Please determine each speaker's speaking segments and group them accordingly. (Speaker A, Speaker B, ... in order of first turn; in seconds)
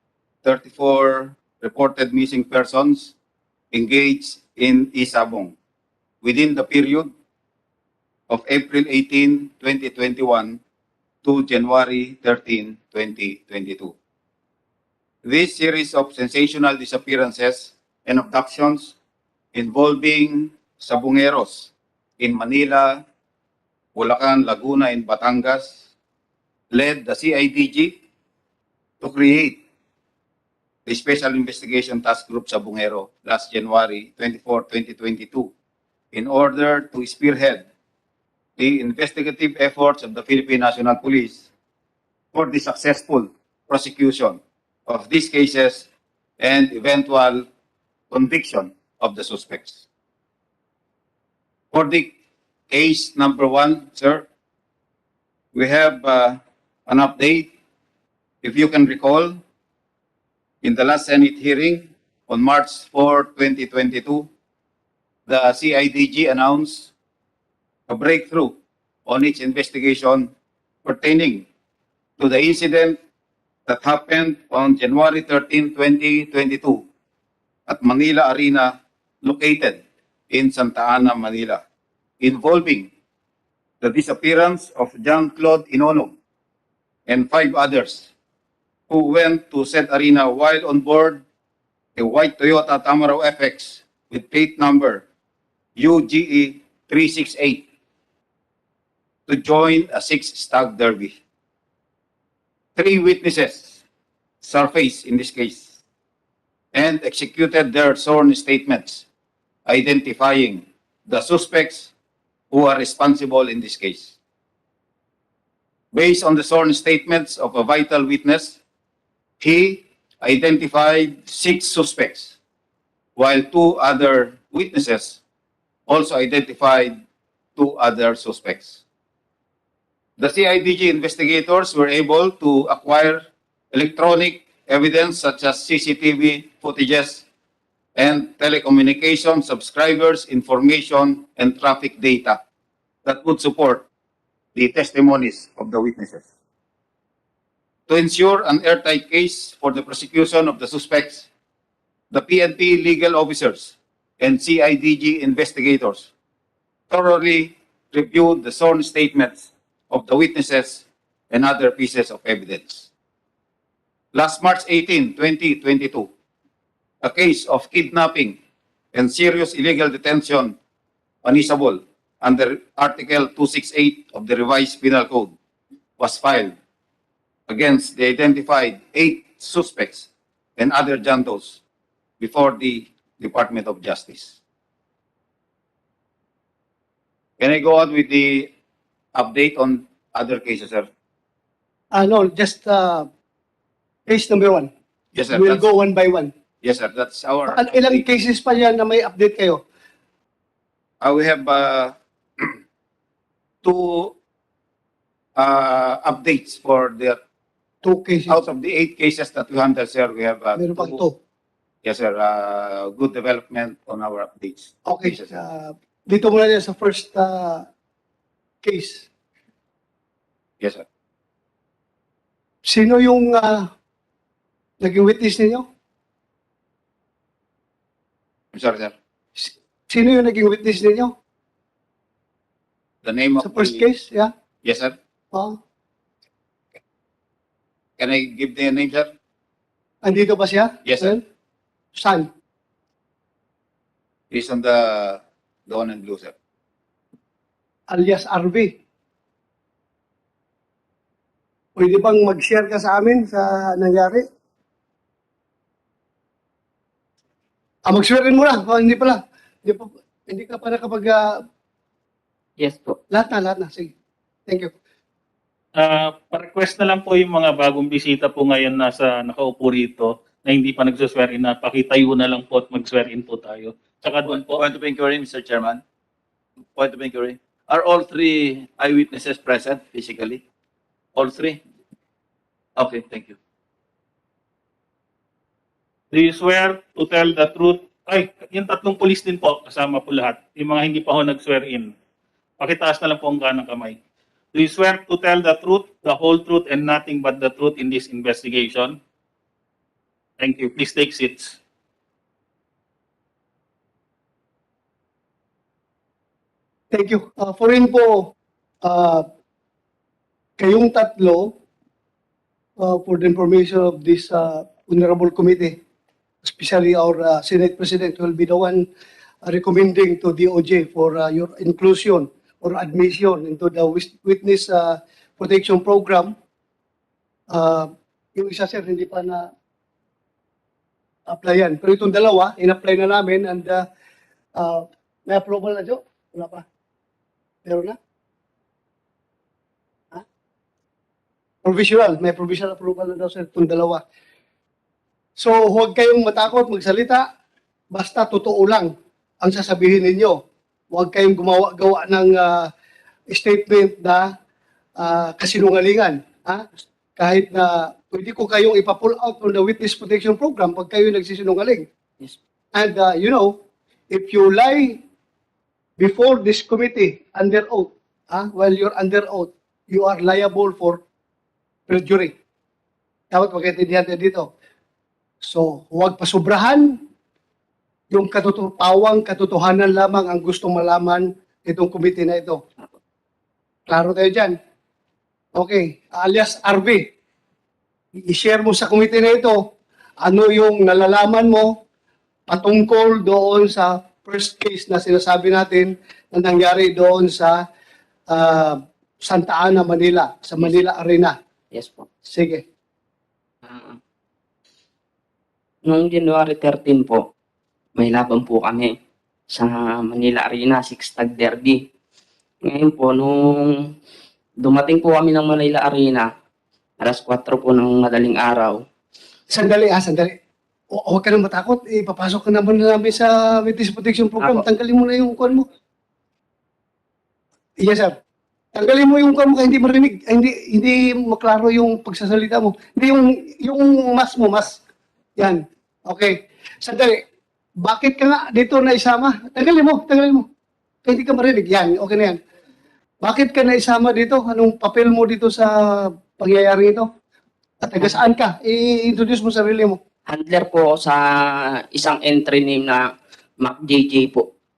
Speaker A: 0.4-3.1, 3.7-5.5, 6.2-7.1, 8.3-10.6, 11.2-13.9, 15.2-18.9, 19.5-23.0, 23.9-25.8, 26.7-27.9, 29.0-29.6, 30.9-35.5, 36.1-37.6, 38.6-41.4, 42.3-45.9, 46.4-47.5, 48.1-49.8, 51.7-52.1, 52.7-54.3, 55.5-57.5, 58.4-59.4, 60.6-64.3, 65.3-66.9, 67.9-70.3, 70.8-71.4, 72.2-73.0, 73.7-76.8, 77.7-78.7, 79.2-81.6, 82.2-82.9, 83.8-86.1, 87.1-88.1, 88.9-91.2, 92.0-95.0, 95.8-97.6, 99.3-101.2, 102.8-103.8, 104.4-105.7, 106.7-109.0, 109.7-111.9, 112.5-114.1, 115.9-118.6, 119.4-122.3, 123.2-125.2, 125.9-127.0, 127.5-128.8, 130.2-133.2, 133.7-137.2, 137.9-142.4, 143.0-143.8, 144.5-146.2, 147.9-151.3, 152.1-156.1, 156.9-162.9, 164.1-166.1, 167.0-168.4, 168.9-170.6, 171.2-175.3, 176.0-176.5, 177.5-181.6, 182.2-184.3, 187.4-188.5, 189.1-190.9, 195.1-195.7, 196.6-198.0, 201.0-202.5, 203.6-204.1, 205.4-207.2, 208.3-211.0, 211.8-215.3, 220.6-220.8, 228.5-228.9, 233.0-233.8, 234.6-234.9, 238.0-239.1, 240.8-241.1, 244.3-246.3
Speaker B: 191.9-193.1, 194.1-194.7, 195.3-196.3, 197.5-199.6, 207.8-208.3, 210.6-211.1, 214.9-217.6, 218.6-219.1, 222.7-223.7, 224.8-225.6, 229.3-231.1, 233.4-234.3, 240.0-241.2, 241.9-242.3, 247.9-248.7, 251.8-254.2, 257.9-261.2, 263.1-263.9, 306.9-308.3, 308.8-309.2, 310.6-311.5, 312.8-315.8, 316.4-318.8, 319.4-326.3, 327.5-329.5, 331.3-333.8, 334.6-336.6, 337.6-338.0, 341.6-344.0, 345.4-347.2, 347.9-348.9, 349.4-350.4, 350.9-352.7, 353.3-354.3, 355.0-361.9, 362.7-363.5, 364.1-365.0, 366.0-371.0, 371.9-372.3, 373.3-374.5, 375.4-377.0, 378.1-382.6, 383.9-384.6, 385.5-387.0, 388.3-389.6, 390.2-391.7, 392.5-397.6, 398.3-401.3, 402.3-402.6, 419.5-420.3, 420.9-425.6, 427.8-428.1, 428.7-434.8, 435.4-437.2, 437.8-440.4, 441.1-442.4, 443.2-447.1, 447.8-450.0
Speaker C: 262.6-263.0, 401.7-402.1, 403.6-404.0, 405.9-407.2, 408.0-408.9, 409.5-411.8, 412.7-413.7, 414.6-416.2, 417.0-418.8, 450.3-451.2, 451.9-453.0, 453.6-454.4
Speaker D: 265.8-274.6, 286.1-291.9, 292.6-294.0, 294.5-299.0, 300.4-301.6
Speaker E: 274.2-275.8, 276.7-280.4, 281.1-281.6, 282.8-283.4